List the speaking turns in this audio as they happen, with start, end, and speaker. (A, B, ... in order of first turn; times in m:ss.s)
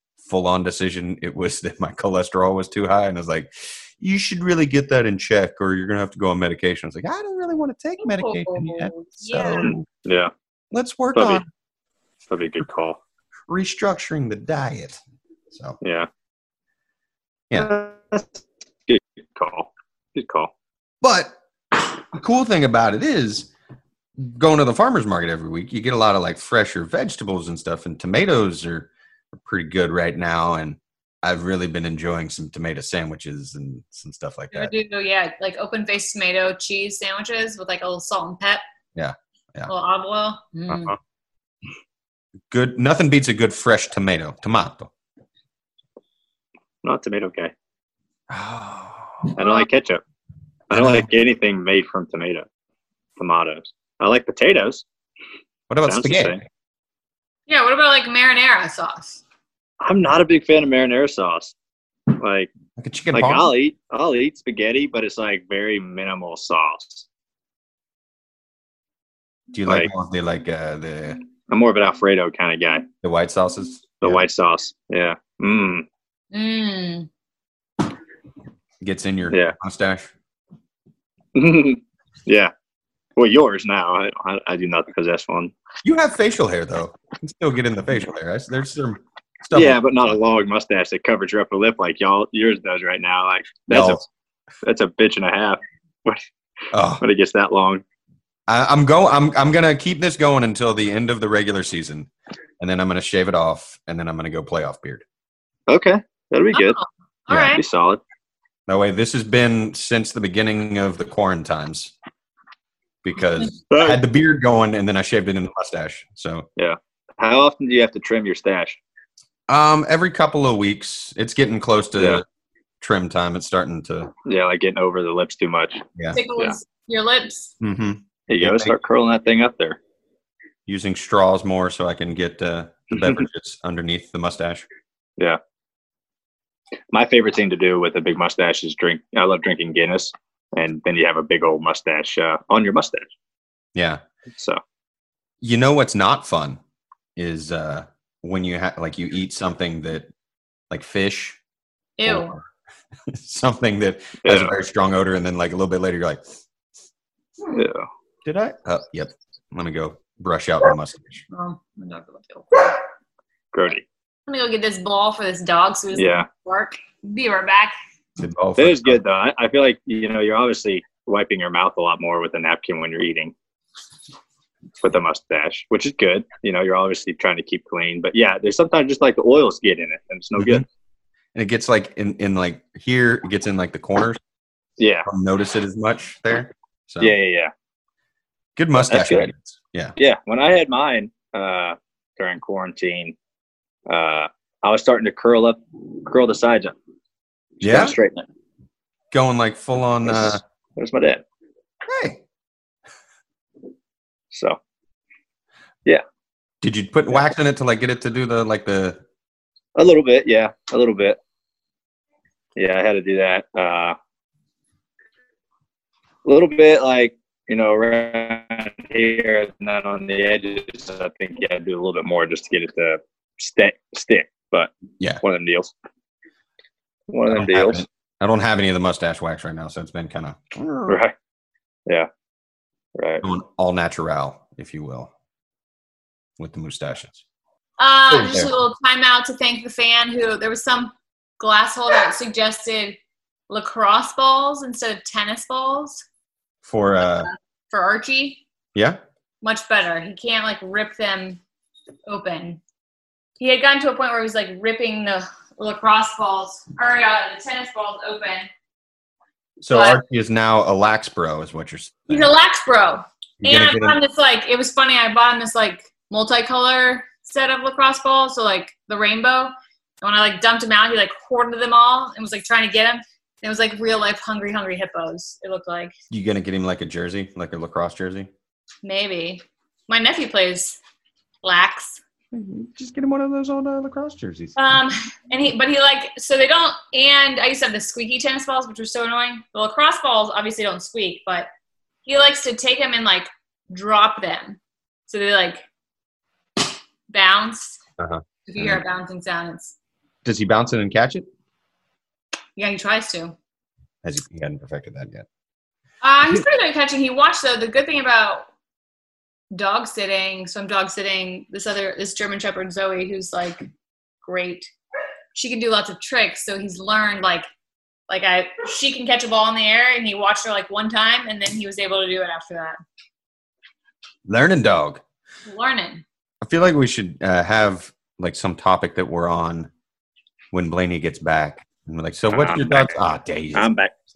0:00.2-0:09.8 A
0:08.0-0:09.7 B
0:09.5-0:10.3 C
0:10.7-0:11.4 A
0:11.1-0:11.4 C
0:12.3-0:13.0 C
0:13.5-0:15.0 A
0:15.5-0:15.8 A
0:15.8-0:16.1 C
0:17.5-0:17.8 A
0:17.5-0:20.5 C
0:21.0-0:23.5 A
0:24.2-0:34.7 A
0:34.5-0:38.6 B
0:38.9-0:39.7 A
0:39.7-0:40.9 B
0:40.7-0:41.0 A
0:42.5-0:44.9 A
0:46.8-0:47.5 C
0:48.3-0:49.3 A
0:49.3-0:50.0 C
0:49.4-0:49.6 B
0:50.7-0:52.4 C
0:50.7-0:51.1 A
0:53.2-0:54.8 C
0:55.7-0:56.4 A
0:55.8-0:56.4 C
0:57.5-0:59.2 B
0:59.8-1:01.5 C
1:02.2-1:02.5 C
1:02.8-1:03.5 A
1:03.1-1:07.0 C
1:09.5-1:11.2 A
1:11.5-1:12.9 C
1:13.0-1:14.2 A
1:14.0-1:15.8 C
1:16.3-1:17.1 B
1:18.8-1:20.1 A
1:19.3-1:19.6 C
1:21.3-1:22.5 C
1:23.2-1:25.5 C
1:25.8-1:29.8 A
1:29.5-1:34.1 C
1:33.7-1:34.0 A
1:34.6-1:36.2 C
1:36.7-1:37.0 A
1:37.0-1:37.8 C
1:38.5-1:45.0 A
1:45.7-1:46.8 C
1:46.5-1:47.6 B
1:47.3-1:47.6 A
1:47.5-1:48.0 C
1:48.7-1:51.9 A
1:53.0-1:56.5 A
1:53.7-1:54.0 C
1:56.6-1:58.8 C
1:59.5-2:02.2 A
2:02.0-2:02.2 C
2:02.8-2:04.1 A
2:04.2-2:05.8 C
2:06.1-2:07.5 B
2:07.6-2:08.7 A
2:08.3-2:09.8 C
2:10.7-2:14.6 A
2:12.9-2:13.2 C
2:16.9-2:23.1 C
2:23.7-2:24.0 A
2:24.3-2:24.6 C
2:25.4-2:26.6 A
2:27.2-2:30.1 A
2:30.7-2:31.4 A
2:32.0-2:32.4 B
2:32.0-2:32.5 A
2:33.1-2:36.2 A
2:34.2-2:34.6 C
2:37.5-2:37.9 C
2:38.2-2:41.2 A
2:41.3-2:42.8 B
2:43.5-2:43.8 C
2:44.3-2:47.7 B
2:45.9-2:46.3 C
2:48.2-2:49.0 A
2:48.6-2:53.3 C
2:54.8-3:00.6 C
3:00.4-3:00.6 A
3:01.3-3:04.2 A
3:04.8-3:05.1 C
3:05.0-3:07.1 A
3:07.0-3:07.5 C
3:08.6-3:10.0 A
3:08.8-3:09.3 C
3:10.0-3:13.1 C
3:13.9-3:16.7 C
3:17.6-3:18.2 C
3:17.6-3:18.0 A
3:19.1-3:20.4 A
3:20.0-3:21.2 C
3:21.8-3:22.2 A
3:24.3-3:24.6 C
3:26.6-3:29.0 A
3:29.8-3:31.2 C
3:32.6-3:34.0 C
3:36.2-3:44.7 C
3:45.2-3:45.7 C
3:47.1-3:47.8 C
3:47.3-3:51.0 A
3:50.9-3:51.1 C
3:53.0-3:53.2 C
3:53.2-3:55.1 A
3:56.4-3:57.2 A
3:57.8-4:03.0 B
3:58.1-3:58.5 A
4:03.5-4:06.0 B
4:06.6-4:07.3 A
4:07.0-4:08.4 B
4:08.7-4:09.0 A
4:09.4-4:11.4 B
4:12.0-4:12.6 B
4:13.4-4:18.5 B
4:19.6-4:22.3 A
4:19.7-4:20.0 B
4:22.1-4:35.9 B
4:23.4-4:24.0 A
4:36.1-4:38.3 A
4:38.8-4:40.8 B
4:41.4-4:42.0 B
4:42.3-4:44.6 A
4:44.6-4:51.5 B
4:52.0-4:55.6 B
4:57.1-4:57.8 B
4:58.0-4:58.8 A
4:58.4-4:59.8 B
5:00.2-5:01.3 A
5:02.6-5:03.3 B
5:04.0-5:05.2 A
5:06.0-5:08.5 B
5:09.5-5:13.7 B
5:14.2-5:14.7 B
5:15.3-5:17.5 B
5:18.1-5:22.8 B
5:24.2-5:25.0 A
5:25.4-5:26.0 B
5:26.4-5:29.7 A
5:30.5-5:33.7 A
5:32.3-5:33.0 C
5:33.5-5:34.0 C